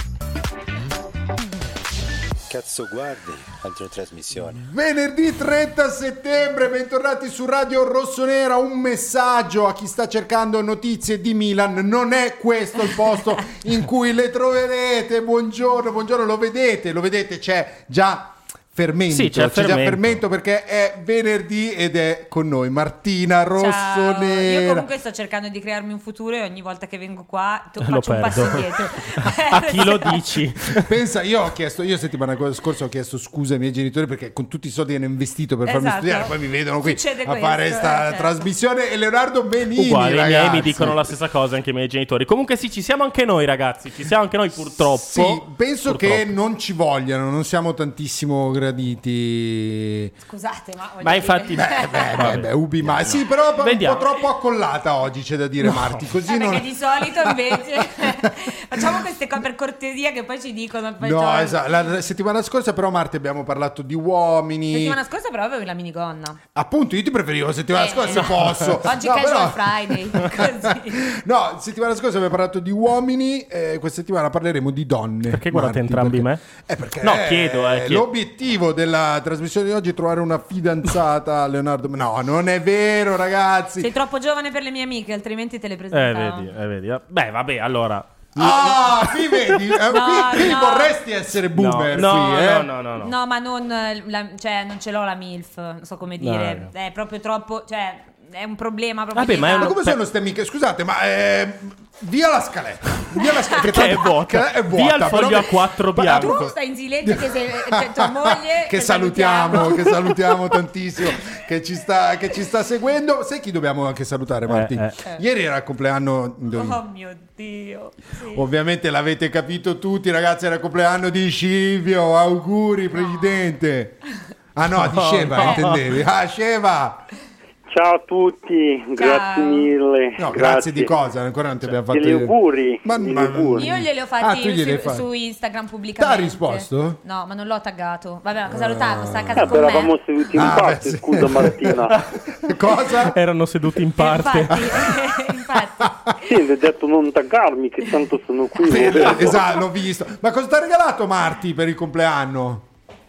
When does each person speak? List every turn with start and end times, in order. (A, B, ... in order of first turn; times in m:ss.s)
0:02.5-0:04.6 A
0:04.6-0:24.9 B
0:19.1-0:20.2 C
0:23.6-0:30.2 D
0:27.8-0:30.9 C
0:30.8-0:41.1 B
0:35.6-0:38.4 D
0:39.8-0:46.3 C
0:44.6-0:50.1 B
0:50.2-0:52.3 D
0:51.0-0:54.0 C
0:51.6-0:58.2 B
0:55.6-0:56.0 C
0:56.3-1:01.6 D
1:01.0-1:05.0 B
1:04.7-1:06.4 D
1:06.5-1:23.9 B
1:07.7-1:11.0 D
1:08.5-1:08.8 C
1:15.3-1:16.4 C
1:17.0-1:18.0 C
1:23.8-1:26.5 D
1:25.9-1:28.5 C
1:28.4-1:32.7 B
1:29.9-1:31.0 D
1:31.5-1:33.1 C
1:33.0-1:39.8 D
1:36.2-1:36.7 C
1:39.1-1:40.0 C
1:39.5-1:56.8 B
1:43.6-1:46.4 C
1:46.1-1:49.7 D
1:54.5-1:55.0 C
1:56.5-1:58.4 D
1:58.3-2:04.0 B
2:02.9-2:03.3 D
2:04.5-2:07.0 B
2:04.9-2:05.8 C
2:07.7-2:11.0 E
2:09.0-2:09.7 D
2:10.2-2:15.1 B
2:11.9-2:13.7 E
2:13.6-2:19.9 D
2:16.0-2:17.0 B
2:18.5-2:19.7 B
2:19.4-2:21.9 E
2:20.3-2:23.2 B
2:23.0-2:24.6 C
2:24.0-2:25.9 D
2:24.5-2:24.9 B
2:26.2-2:29.5 E
2:28.6-2:29.6 D
2:28.7-2:32.6 B